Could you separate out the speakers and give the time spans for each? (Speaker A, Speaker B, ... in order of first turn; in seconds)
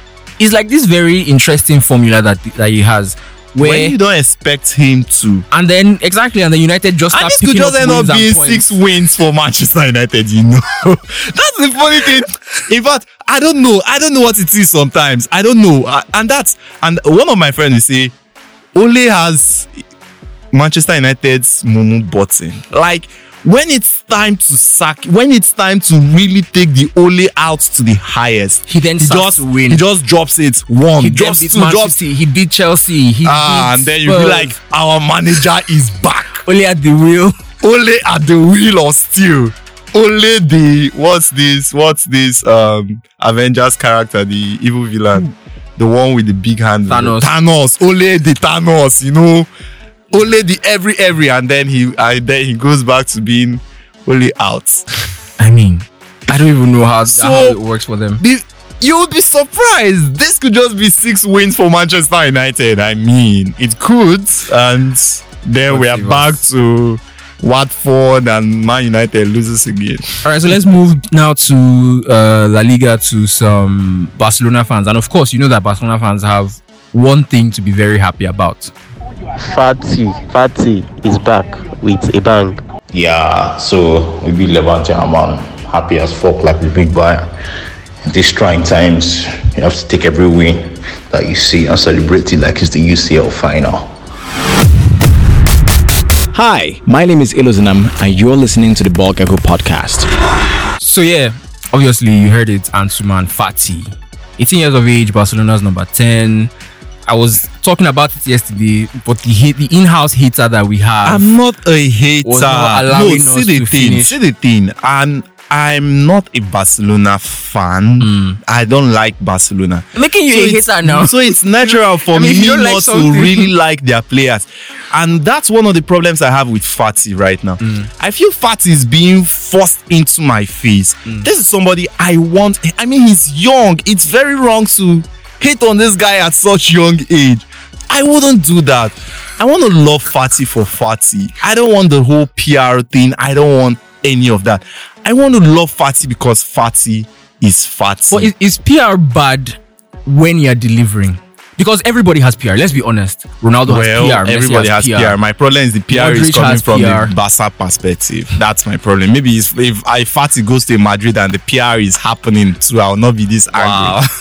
Speaker A: 0.4-4.0, 5.5-8.8, 28.7-29.8, 31.0-34.5, 36.4-37.4, 46.9-47.3, 55.4-58.2, 65.7-66.4, 70.2-78.7, 100.8-106.5, 107.1-111.3, 112.2-114.2, 118.0-118.4, 120.0-121.4, 122.1-123.5, 127.6-127.9, 148.1-155.2, 155.9-157.1, 163.5-164.1
Speaker B: 3.6-5.5, 7.1-18.1, 18.7-19.7, 20.5-32.0, 33.2-36.5, 37.6-49.5, 50.1-54.9, 57.1-57.6, 58.2-70.0, 111.0-148.3, 153.7-164.0
Speaker C: 79.5-82.6
Speaker D: 82.9-87.3, 88.1-93.9
Speaker E: 96.3-100.1